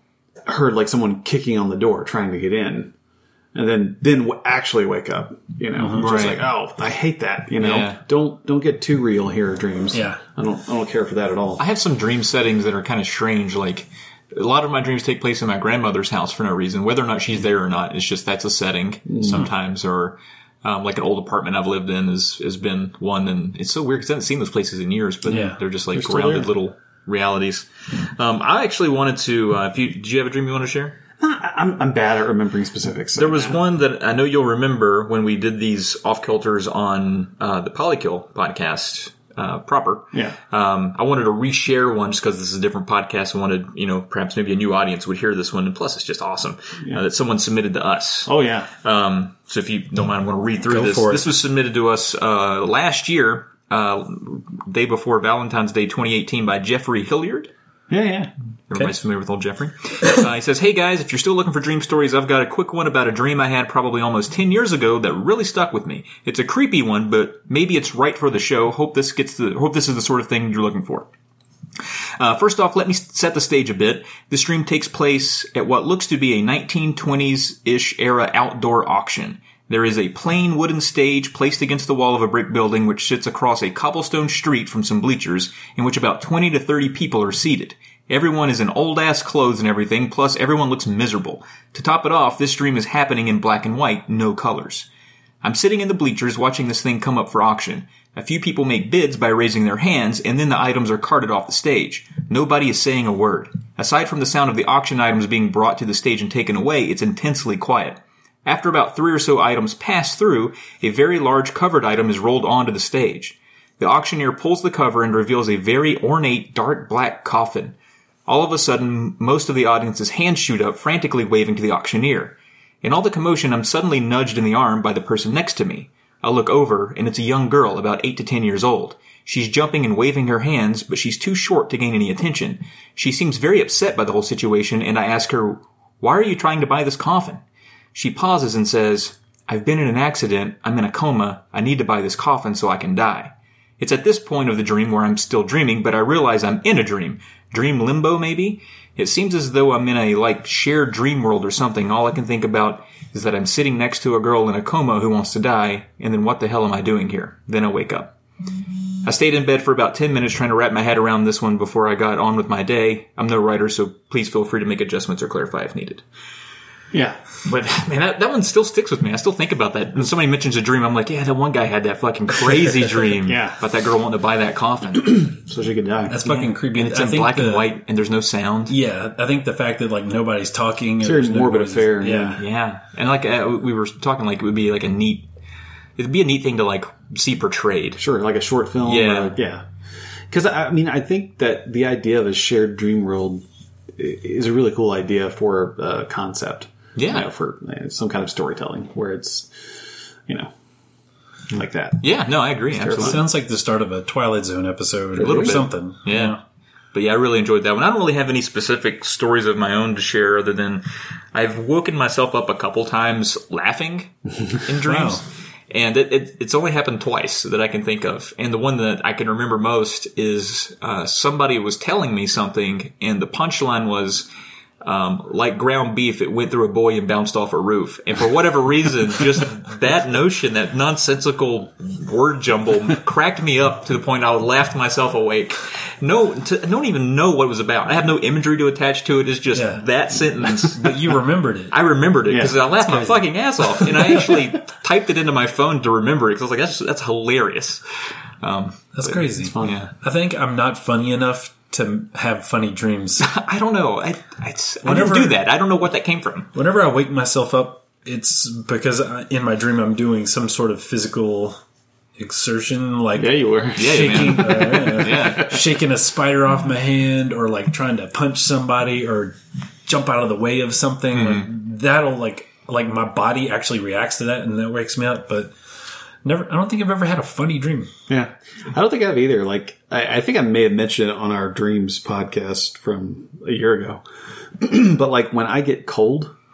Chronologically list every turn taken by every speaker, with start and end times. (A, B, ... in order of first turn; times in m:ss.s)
0:00.4-0:02.9 A
0:03.5-0:11.6 A
0:05.8-0:06.1 B
0:06.0-0:06.4 C
0:07.6-0:08.0 C
0:09.9-0:10.2 B
0:11.6-0:31.0 C
0:19.1-0:19.4 A
0:25.3-0:25.6 B
0:25.9-0:26.5 A
0:31.2-0:33.6 A
0:33.2-0:48.3 C
0:48.2-0:48.7 A
0:48.8-0:57.5 C
0:50.7-0:51.2 B
0:57.9-0:58.3 A
0:58.7-1:11.1 C
1:12.2-1:34.9 C
1:35.4-1:57.7 C
1:58.2-2:17.4 C
2:17.9-2:38.1 C
2:39.0-2:46.0 C
2:46.9-2:47.2 A
2:47.4-2:55.2 C
2:53.2-2:53.6 A
2:55.1-2:56.2 A
2:56.1-2:57.7 B
2:56.2-2:58.7 C
2:58.7-3:02.4 B
3:01.0-3:02.4 A
3:02.4-3:05.3 C
3:06.0-3:08.0 C
3:08.0-3:09.6 A
3:08.8-3:09.3 C
3:10.3-3:13.4 A
3:14.0-3:19.5 A
3:17.0-3:17.3 C
3:21.5-3:22.1 A
3:22.0-3:23.2 C
3:22.7-3:23.2 A
3:22.9-3:26.4 B
3:25.2-3:25.6 A
3:25.2-3:26.4 C
3:26.9-3:44.3 C
3:34.8-3:35.2 B
3:44.8-4:01.2 C
3:59.5-3:59.8 B
4:00.4-4:01.7 B
4:01.7-4:07.8 C
4:02.3-4:02.6 A
4:02.9-4:03.2 B
4:08.4-4:08.9 C
4:08.9-4:13.2 B
4:09.3-4:09.8 A
4:09.6-4:09.9 C
4:13.2-4:16.5 C
4:14.8-4:15.4 B
4:16.5-4:21.6 B
4:22.2-4:35.5 B
4:23.2-4:25.3 A
4:23.8-4:25.6 C
4:31.2-4:31.4 C
4:36.2-4:37.9 B
4:38.1-4:44.0 A
4:44.6-4:46.3 A